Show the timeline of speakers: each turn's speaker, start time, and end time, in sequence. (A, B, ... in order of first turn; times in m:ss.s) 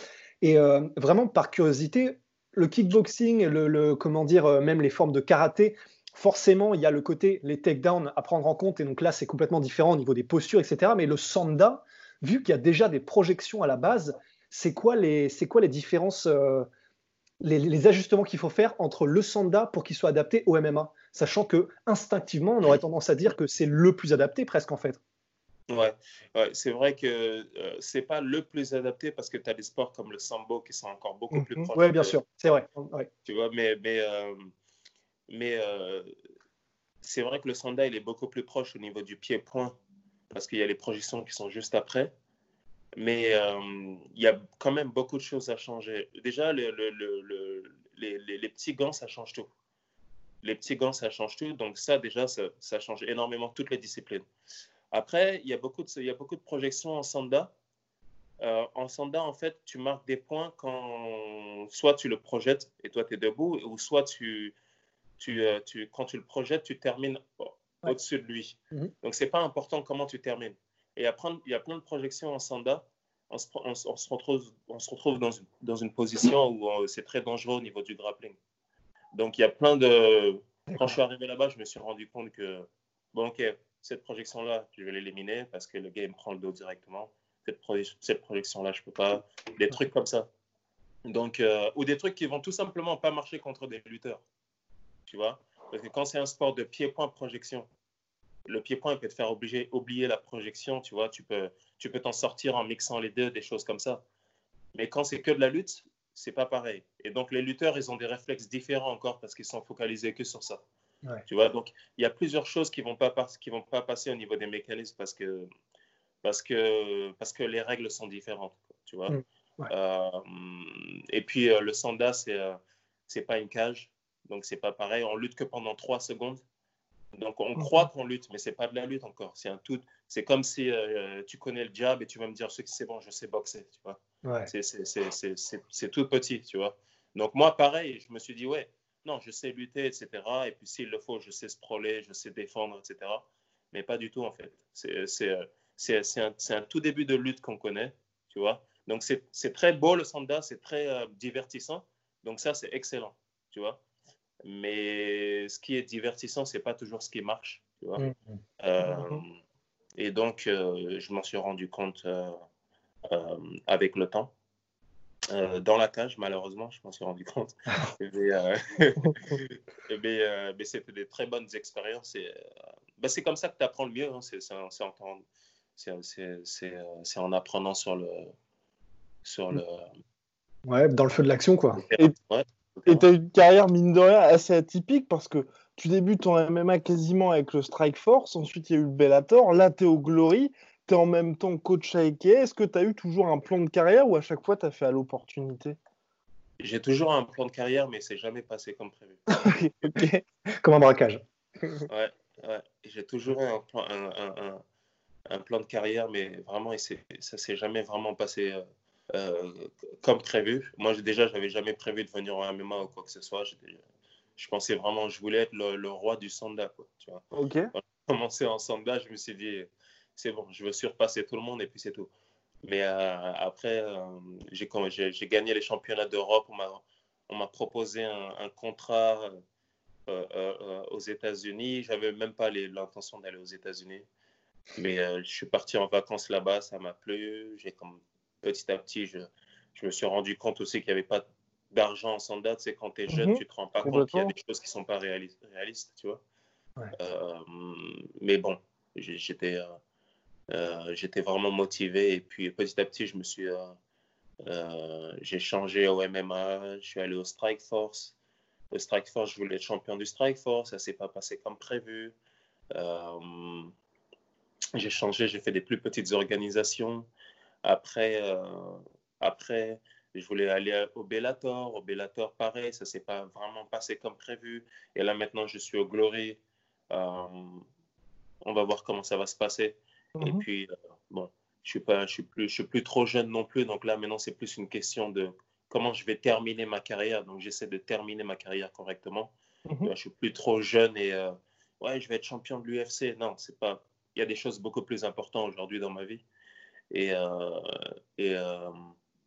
0:00.4-0:16.7 A
0:17.4-0:25.0 A
0:25.7-0:32.2 B
0:31.3-0:31.7 C
0:31.8-0:33.1 A
0:33.3-0:34.4 B
0:35.3-0:36.1 B
0:37.0-0:39.8 B
0:40.3-0:42.1 B
0:43.0-0:49.5 B
0:50.4-0:54.3 B
0:54.9-0:57.5 B
0:58.4-1:04.5 B
1:05.2-1:18.4 B
1:19.2-1:30.3 B
1:31.0-1:34.2 B
1:35.1-1:37.7 B
1:38.5-1:44.0 B
1:44.7-1:50.6 B
1:51.3-1:55.5 B
1:56.2-1:59.2 B
1:59.1-1:59.7 A
1:59.7-2:06.4 B
2:07.1-2:33.8 B
2:14.2-2:14.5 A
2:34.4-2:38.0 B
2:38.0-2:38.4 A
2:38.6-2:39.3 B
2:38.9-2:39.2 C
2:40.0-2:42.4 B
2:43.1-2:44.3 B
2:45.3-2:52.4 B
2:53.0-2:55.2 B
2:55.8-2:58.3 B
2:59.2-2:59.9 B
3:00.7-3:01.8 A
3:01.8-3:03.1 B
3:02.9-3:15.8 C
3:16.6-3:19.2 B
3:19.3-3:20.2 C
3:20.6-3:21.2 A
3:21.9-3:24.6 B
3:25.3-3:33.8 B
3:34.4-3:37.2 B
3:37.3-3:37.7 C
3:37.7-3:42.1 B
3:42.6-3:49.3 B
3:50.1-3:54.1 B
3:54.8-4:06.2 B
4:03.1-4:04.3 C
4:07.0-4:09.7 B
4:10.5-4:13.7 B
4:14.4-4:18.2 B
4:18.7-4:22.1 B
4:22.7-4:23.7 B
4:24.8-4:27.1 B
4:27.6-4:37.6 B
4:38.4-4:49.3 B
4:40.2-4:40.4 C
4:49.8-4:56.2 B
4:56.9-4:58.8 B